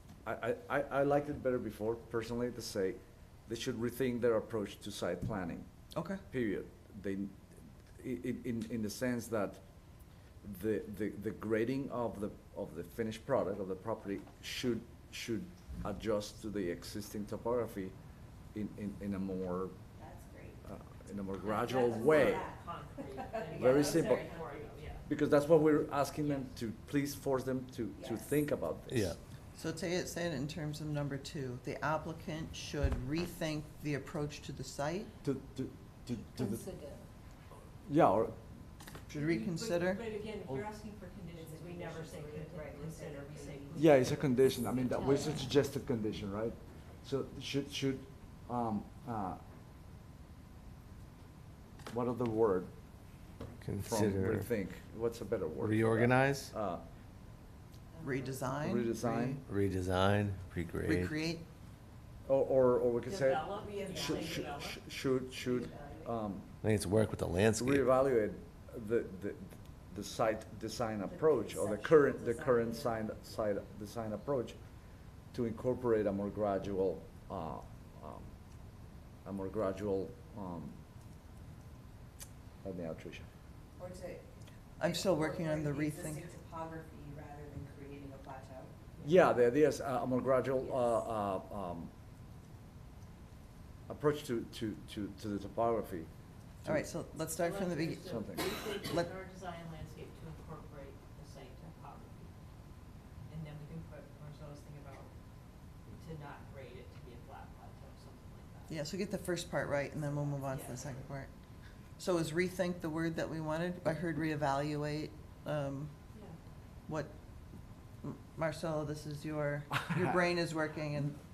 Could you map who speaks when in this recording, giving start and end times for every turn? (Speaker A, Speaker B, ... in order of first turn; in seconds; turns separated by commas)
Speaker A: 0.2-5.7, Speaker B: 5.9-6.2, Speaker A: 6.3-7.3, Speaker A: 8.0-9.6, Speaker A: 10.4-17.9, Speaker A: 18.5-19.8, Speaker C: 19.9-20.6, Speaker A: 20.6-22.4, Speaker D: 21.4-25.1, Speaker C: 21.8-24.8, Speaker A: 23.6-24.2, Speaker A: 25.0-29.1, Speaker D: 26.2-26.5, Speaker C: 28.0-28.3, Speaker E: 28.9-29.2, Speaker B: 29.5-35.1, Speaker A: 35.2-36.6, Speaker A: 37.8-38.4, Speaker B: 39.1-40.0, Speaker D: 39.1-45.4, Speaker C: 41.3-45.2, Speaker A: 43.7-49.4, Speaker A: 51.9-52.7, Speaker E: 53.6-54.5, Speaker A: 53.8-56.8, Speaker E: 55.6-56.5, Speaker C: 58.0-58.4, Speaker B: 58.0-59.4, Speaker A: 58.6-59.4, Speaker E: 59.5-61.1, Speaker B: 60.8-61.4, Speaker A: 62.2-66.5, Speaker D: 63.0-64.8, Speaker C: 63.8-64.4, Speaker C: 65.3-66.1, Speaker E: 66.6-67.9, Speaker A: 67.6-74.5, Speaker C: 71.1-73.2, Speaker A: 75.3-78.3, Speaker A: 79.2-80.8, Speaker A: 82.6-83.2, Speaker C: 83.8-88.9, Speaker B: 84.8-86.3, Speaker A: 89.0-91.9, Speaker C: 90.6-90.9, Speaker A: 93.9-96.1, Speaker B: 96.6-98.2, Speaker D: 97.4-102.3, Speaker A: 98.0-98.4, Speaker B: 98.8-99.1, Speaker D: 103.3-105.1, Speaker D: 106.0-108.8, Speaker B: 108.7-111.3, Speaker D: 110.5-111.0, Speaker B: 112.0-115.9, Speaker B: 116.8-117.1, Speaker B: 118.0-121.2